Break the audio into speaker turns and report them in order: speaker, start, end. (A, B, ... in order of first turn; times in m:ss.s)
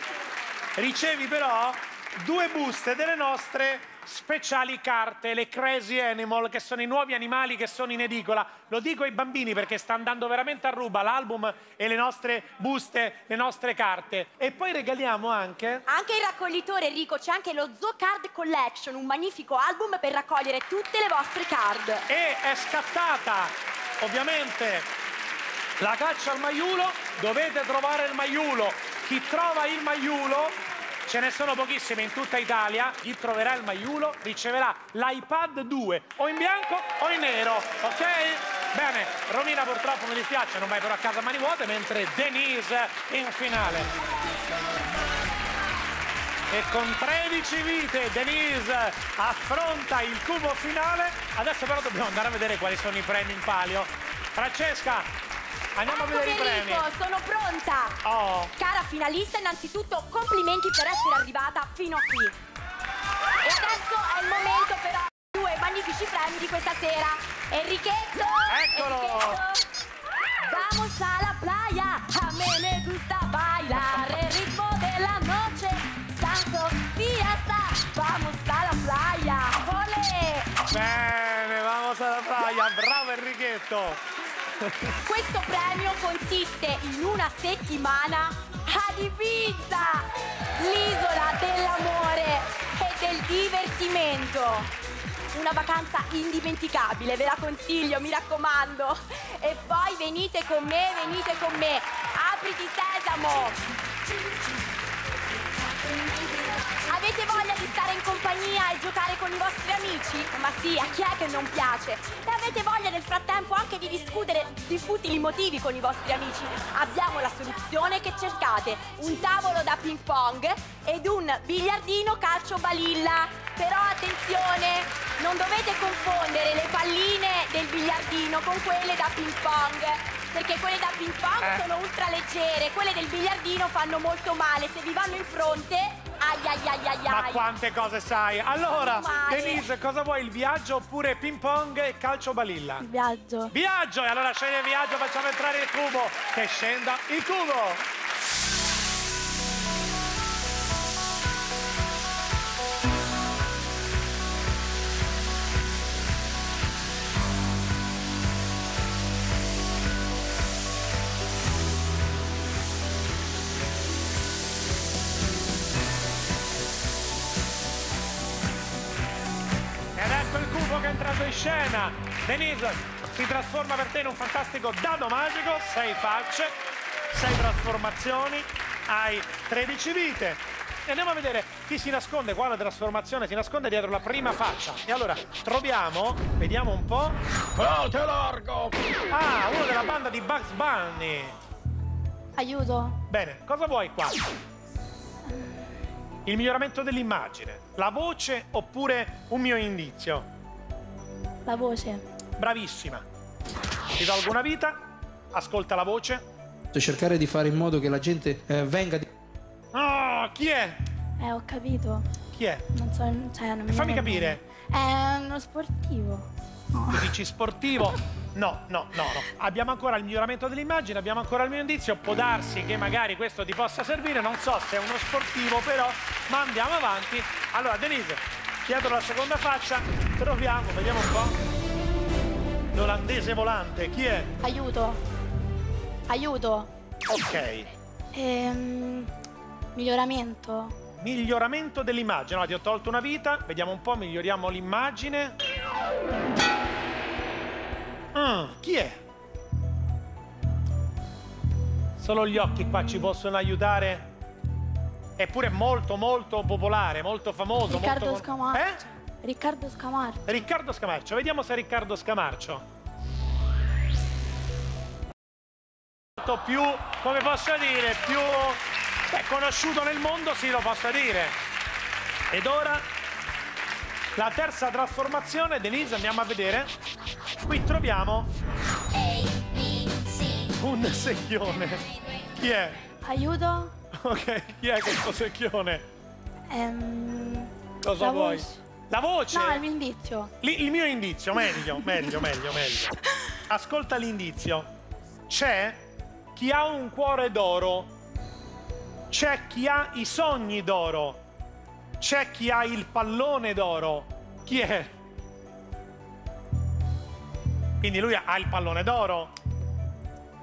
0:00.8-0:15.8 A
0:15.9-0:22.0 B
0:22.1-0:24.9 A
0:25.8-0:43.9 A
0:46.5-0:55.1 A
0:55.7-0:56.9 A
0:55.9-0:58.0 B
0:58.0-0:58.5 A
0:58.6-1:02.4 B
1:03.4-1:09.6 B
1:08.5-1:09.4 A
1:10.4-1:20.5 B
1:20.7-1:24.0 A
1:24.6-1:25.0 A
1:25.0-1:34.7 B
1:35.3-1:43.6 B
1:46.8-2:17.4 B
2:17.1-2:22.9 A
2:18.7-2:19.6 B
2:22.8-2:23.5 C
2:23.5-2:27.8 A
2:49.9-2:56.6 A
2:57.1-3:07.8 A
3:09.1-3:11.4 A
3:12.4-3:13.0 C
3:13.1-3:14.2 A
3:15.3-3:15.7 C
3:16.2-3:20.3 A
3:21.4-3:22.0 C
3:22.4-3:23.0 A
3:24.0-3:26.2 A
3:26.7-3:29.0 D
3:29.7-3:30.8 A
3:31.2-3:32.1 C
3:32.3-3:32.6 A
3:32.7-3:37.1 C
3:33.7-3:34.4 A
3:36.9-3:51.4 A
3:52.7-3:54.3 A
3:54.4-3:55.0 C
3:56.1-3:56.7 C
3:57.1-3:57.7 A
3:58.1-3:59.1 C
3:59.7-4:00.8 C
4:01.0-4:05.4 A
4:08.1-4:09.0 A
4:12.0-4:14.1 A
4:15.2-4:18.8 A
4:17.7-4:18.7 C
4:19.2-4:20.2 C
4:20.2-4:22.6 A
4:26.2-4:31.4 A
4:32.3-4:32.9 A
4:34.1-4:36.7 A
4:37.4-4:38.3 A
4:39.3-4:40.0 B
4:40.5-4:42.8 A
4:43.0-4:43.7 C
4:43.9-4:45.8 A
4:46.5-4:48.6 C
4:47.8-4:49.6 A
4:49.3-4:50.3 C
4:50.4-4:53.0 A
4:53.5-4:54.7 A
4:55.3-4:55.8 A
4:56.3-4:57.9 A
4:59.1-5:01.2 A
5:02.0-5:04.9 A
5:07.8-5:09.3 A